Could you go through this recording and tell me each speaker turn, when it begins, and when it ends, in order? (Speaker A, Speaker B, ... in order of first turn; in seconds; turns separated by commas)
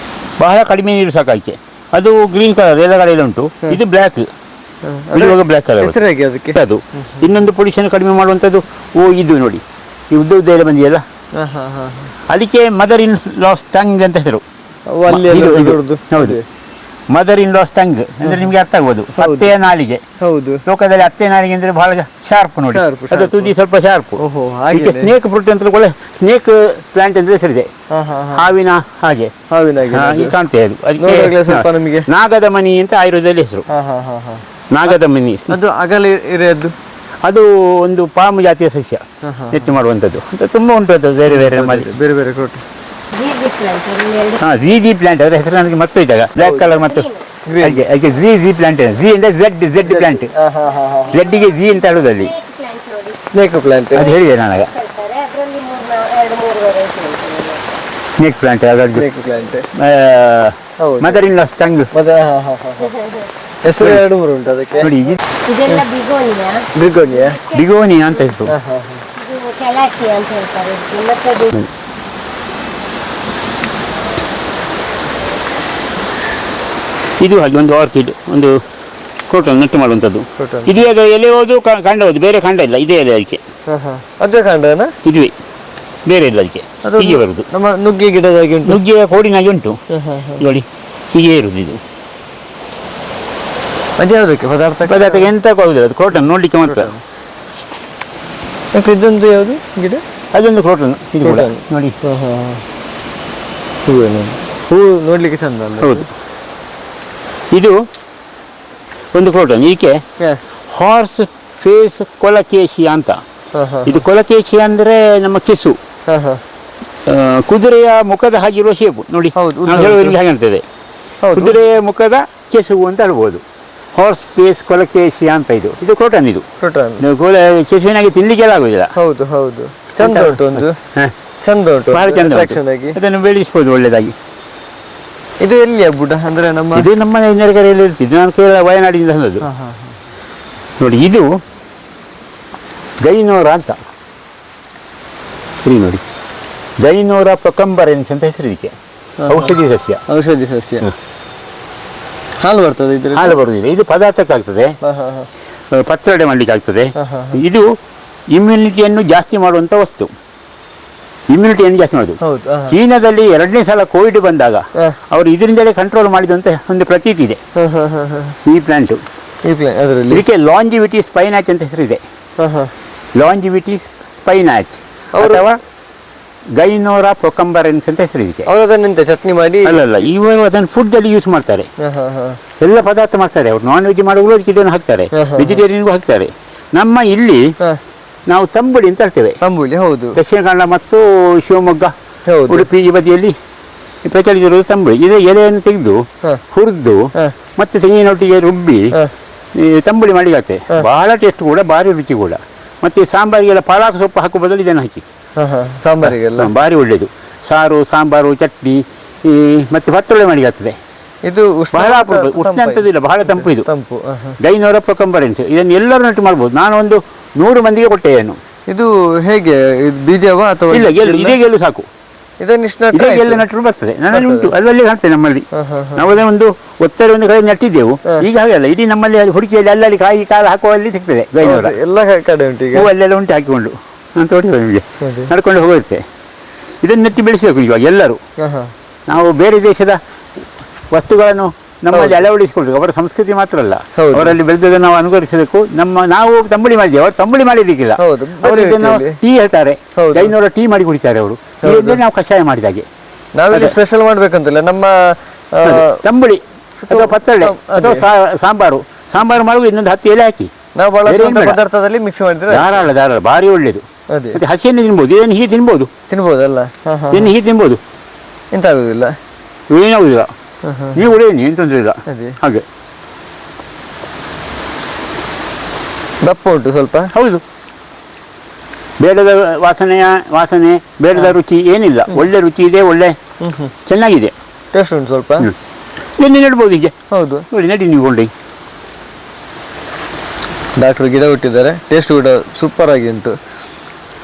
Speaker A: 0.4-4.3, Speaker B: 4.8-7.3, Speaker A: 5.2-6.0, Speaker A: 6.5-11.0, Speaker B: 11.3-12.1, Speaker A: 12.3-14.4, Speaker B: 14.9-16.4, Speaker A: 15.1-16.4, Speaker A: 17.1-20.0, Speaker B: 18.2-18.5, Speaker B: 19.2-19.5, Speaker B: 20.2-20.6, Speaker A: 20.7-24.2, Speaker B: 22.7-23.5, Speaker B: 24.2-25.1, Speaker A: 24.7-27.7, Speaker B: 27.9-28.5, Speaker A: 28.4-29.3, Speaker B: 29.5-30.4, Speaker A: 29.9-33.6, Speaker B: 31.0-32.1, Speaker B: 33.7-35.0, Speaker A: 34.7-35.6, Speaker B: 35.5-36.7, Speaker A: 37.2-41.9, Speaker B: 39.2-39.8, Speaker B: 41.3-42.6, Speaker C: 43.1-44.4, Speaker A: 44.4-47.1, Speaker B: 46.4-46.8, Speaker C: 46.7-47.3, Speaker B: 47.5-47.8, Speaker A: 47.6-50.3, Speaker B: 49.8-51.2, Speaker C: 50.6-53.2, Speaker A: 51.1-52.3, Speaker B: 53.2-54.1, Speaker A: 54.0-54.7, Speaker C: 54.0-57.7, Speaker A: 58.1-59.0, Speaker B: 58.9-59.6, Speaker A: 59.8-61.9, Speaker B: 60.8-61.3, Speaker B: 61.9-62.9, Speaker C: 62.8-63.3, Speaker B: 63.6-64.9, Speaker A: 63.7-64.0, Speaker A: 64.8-65.2, Speaker C: 65.5-68.3, Speaker B: 66.8-67.4, Speaker A: 67.5-68.5, Speaker B: 68.5-69.0, Speaker C: 69.1-71.6, Speaker A: 77.2-78.5, Speaker A: 79.3-83.4, Speaker B: 80.4-80.8, Speaker B: 83.7-84.9, Speaker A: 85.0-85.3, Speaker A: 86.1-87.5, Speaker B: 86.8-88.8, Speaker A: 88.7-89.8, Speaker B: 89.9-90.4, Speaker A: 90.4-91.8, Speaker B: 94.0-95.3, Speaker A: 94.8-96.9, Speaker B: 96.7-97.0, Speaker B: 98.7-100.0, Speaker A: 100.3-102.0, Speaker B: 101.2-102.6, Speaker B: 103.9-106.0, Speaker A: 105.8-106.1, Speaker A: 109.1-110.0, Speaker A: 110.7-113.2, Speaker B: 113.5-114.0, Speaker A: 113.9-115.8, Speaker B: 116.1-116.4, Speaker A: 117.1-120.6, Speaker B: 119.3-120.2, Speaker B: 121.2-121.6, Speaker A: 121.3-123.4, Speaker A: 123.9-126.5, Speaker B: 126.6-127.0, Speaker A: 127.0-128.9, Speaker B: 129.0-130.8, Speaker A: 130.0-131.2, Speaker B: 131.4-133.0, Speaker A: 131.9-134.1, Speaker B: 135.4-136.9, Speaker A: 136.8-139.4, Speaker B: 139.4-140.0, Speaker A: 140.8-141.2, Speaker A: 143.0-143.8, Speaker A: 145.7-146.0, Speaker A: 146.8-148.8, Speaker B: 149.2-149.6, Speaker A: 149.3-150.0, Speaker B: 150.1-150.9, Speaker B: 152.4-153.4, Speaker A: 153.1-154.7, Speaker B: 154.8-155.3, Speaker A: 155.7-157.7, Speaker B: 157.0-157.4, Speaker A: 158.3-160.1, Speaker A: 161.3-162.2, Speaker B: 162.2-162.8, Speaker A: 162.7-167.4, Speaker B: 167.6-168.4, Speaker A: 168.4-169.0, Speaker B: 169.4-170.2, Speaker A: 170.1-172.0, Speaker B: 172.4-172.7, Speaker A: 173.2-175.6, Speaker B: 175.1-175.5, Speaker A: 176.6-178.5, Speaker B: 178.5-179.9, Speaker A: 179.7-181.7, Speaker B: 181.8-182.4, Speaker A: 182.6-187.4, Speaker B: 185.1-185.6, Speaker A: 188.3-189.4, Speaker B: 189.4-190.2, Speaker A: 190.2-191.9, Speaker B: 192.3-192.7, Speaker A: 192.5-193.3, Speaker A: 194.0-197.1, Speaker A: 197.6-198.9, Speaker A: 199.5-205.0, Speaker B: 205.4-206.5, Speaker A: 206.0-210.8, Speaker B: 211.2-214.4, Speaker A: 211.7-213.7, Speaker A: 214.4-218.4, Speaker B: 218.7-221.4, Speaker A: 220.7-221.9, Speaker B: 222.4-223.4, Speaker A: 222.9-225.5, Speaker B: 224.1-224.5, Speaker B: 225.5-226.1, Speaker A: 226.0-231.8, Speaker B: 231.4-232.9, Speaker A: 232.7-236.0, Speaker B: 235.0-235.3, Speaker A: 236.8-238.2, Speaker B: 238.4-238.7, Speaker A: 239.1-240.0, Speaker A: 240.9-252.9, Speaker B: 241.9-242.2, Speaker B: 244.0-244.4, Speaker B: 248.0-249.2, Speaker B: 250.0-250.3, Speaker B: 251.6-252.0, Speaker B: 253.4-256.0, Speaker A: 255.7-260.5, Speaker B: 256.8-258.1, Speaker B: 260.8-262.9, Speaker A: 261.1-261.6, Speaker A: 262.5-265.9, Speaker B: 264.1-264.4, Speaker B: 266.1-267.3, Speaker A: 267.1-267.8, Speaker B: 268.5-269.1, Speaker A: 269.7-270.3, Speaker B: 270.6-271.1, Speaker A: 271.0-272.6, Speaker B: 272.1-272.4, Speaker B: 276.2-277.1, Speaker A: 277.1-277.4, Speaker A: 279.0-283.2, Speaker B: 283.4-283.7, Speaker A: 283.9-284.3, Speaker B: 284.7-285.5, Speaker A: 286.2-286.9, Speaker B: 287.1-287.4, Speaker A: 287.5-288.3, Speaker B: 290.8-293.4